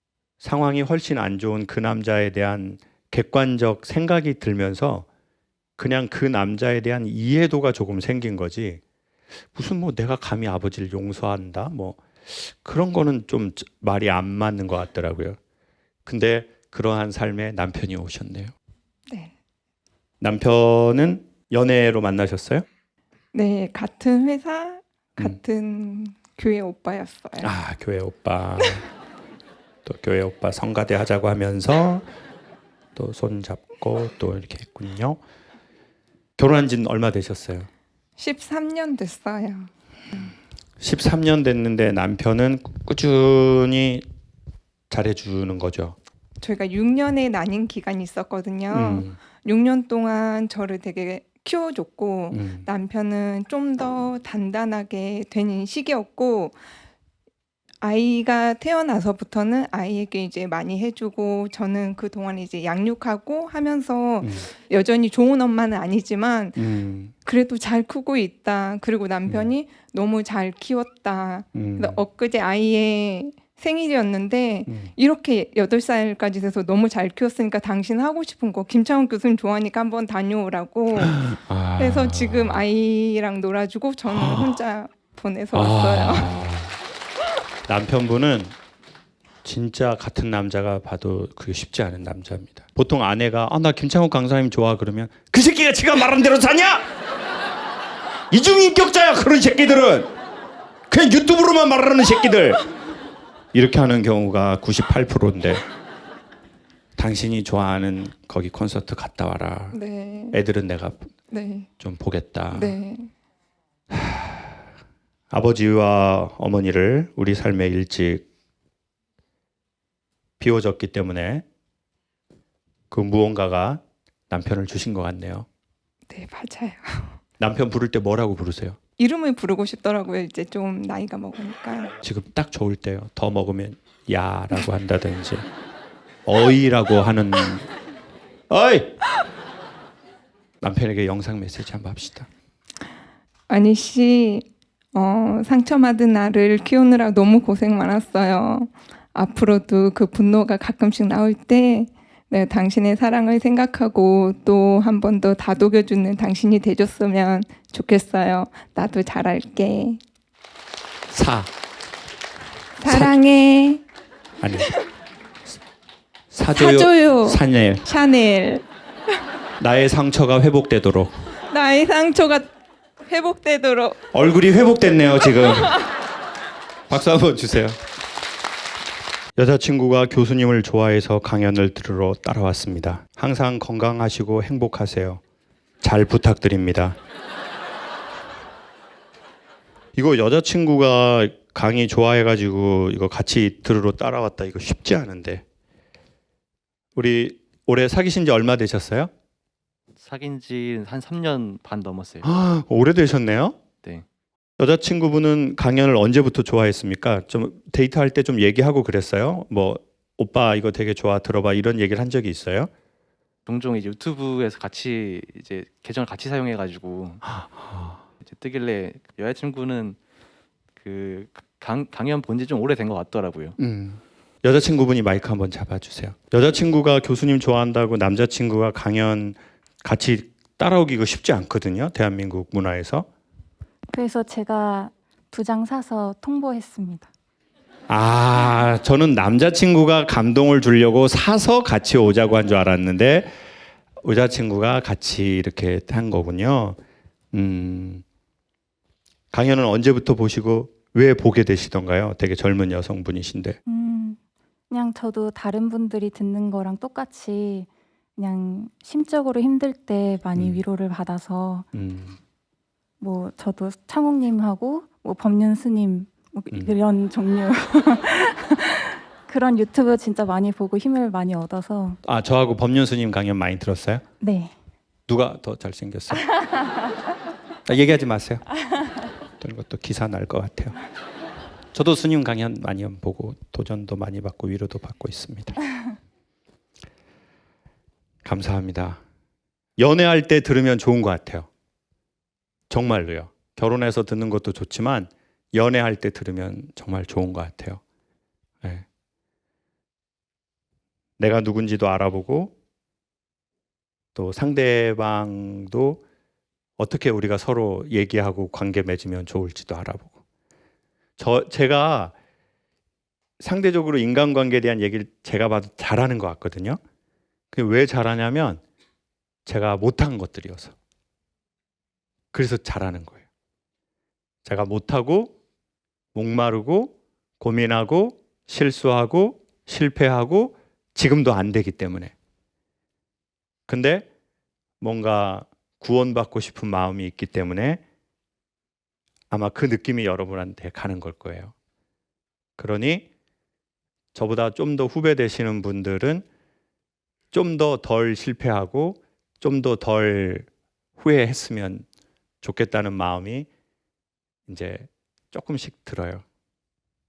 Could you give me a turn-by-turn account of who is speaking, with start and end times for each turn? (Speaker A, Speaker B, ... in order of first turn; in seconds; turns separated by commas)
Speaker A: 0.4-5.1, Speaker A: 5.8-8.8, Speaker A: 9.6-15.4, Speaker A: 16.1-18.5, Speaker A: 20.2-22.6, Speaker B: 23.3-27.5, Speaker A: 27.4-28.9, Speaker A: 29.9-32.1, Speaker A: 33.0-35.2, Speaker A: 36.4-37.7, Speaker B: 38.2-39.7, Speaker A: 40.8-44.0, Speaker A: 44.9-46.0, Speaker B: 46.4-56.6, Speaker A: 48.7-49.2, Speaker A: 52.3-52.7, Speaker B: 57.8-66.6, Speaker A: 64.2-64.5, Speaker A: 66.6-67.1, Speaker B: 67.3-81.2, Speaker A: 71.5-72.0, Speaker A: 74.7-74.9, Speaker A: 81.0-82.6, Speaker B: 81.8-86.3, Speaker A: 84.1-84.5, Speaker A: 85.5-86.8, Speaker A: 87.7-88.5, Speaker A: 89.4-96.8, Speaker A: 98.3-100.1, Speaker A: 100.9-102.6, Speaker A: 103.5-105.6, Speaker A: 107.0-109.8, Speaker B: 109.7-110.4, Speaker A: 110.3-111.1, Speaker B: 111.3-111.7, Speaker A: 111.8-112.7, Speaker B: 112.5-113.1, Speaker A: 113.9-114.6, Speaker A: 115.3-118.3, Speaker A: 120.4-121.5, Speaker A: 122.9-125.5, Speaker B: 126.1-127.2, Speaker A: 127.4-128.8, Speaker B: 129.0-131.9, Speaker A: 132.0-135.4, Speaker A: 136.3-137.7, Speaker A: 138.5-139.0, Speaker A: 140.6-142.3, Speaker B: 143.5-160.0, Speaker A: 161.1-161.5, Speaker B: 162.8-163.8, Speaker A: 162.9-163.1, Speaker A: 164.4-164.7, Speaker A: 166.3-167.8, Speaker B: 166.6-168.6, Speaker A: 169.6-171.2, Speaker B: 171.5-172.5, Speaker B: 173.1-174.0, Speaker A: 174.1-175.8, Speaker A: 176.9-177.8, Speaker A: 179.4-185.2, Speaker A: 185.8-187.0, Speaker A: 190.0-195.4, Speaker A: 197.0-199.1, Speaker C: 200.0-202.2, Speaker A: 202.2-203.6, Speaker A: 204.6-212.7, Speaker C: 213.5-217.2, Speaker A: 217.2-218.0, Speaker C: 218.2-220.0, Speaker C: 220.8-223.6, Speaker A: 223.6-233.1, Speaker D: 233.9-237.1, Speaker A: 237.9-243.3, Speaker A: 244.0-246.8, Speaker A: 247.3-248.0, Speaker A: 249.3-253.6, Speaker D: 253.7-254.2, Speaker D: 254.7-261.7, Speaker A: 260.4-260.6, Speaker A: 261.7-262.2, Speaker D: 263.0-272.0, Speaker A: 272.0-274.0, Speaker D: 274.2-274.5, Speaker A: 275.1-276.3, Speaker A: 277.7-278.4, Speaker A: 279.4-280.8, Speaker A: 281.7-285.6, Speaker A: 288.2-289.0, Speaker A: 289.8-291.5, Speaker A: 292.7-297.8, Speaker A: 301.2-302.5, Speaker A: 304.1-306.0, Speaker A: 306.8-310.2, Speaker A: 311.2-312.1, Speaker A: 313.4-316.8, Speaker A: 317.5-318.6, Speaker A: 319.5-320.8, Speaker A: 322.3-323.2, Speaker A: 324.4-325.3, Speaker A: 326.1-332.1, Speaker A: 333.7-334.1, Speaker A: 334.8-337.8, Speaker A: 339.3-341.5, Speaker A: 342.6-343.1, Speaker A: 344.1-346.2, Speaker A: 347.3-351.9, Speaker A: 352.4-353.5, Speaker A: 354.5-356.2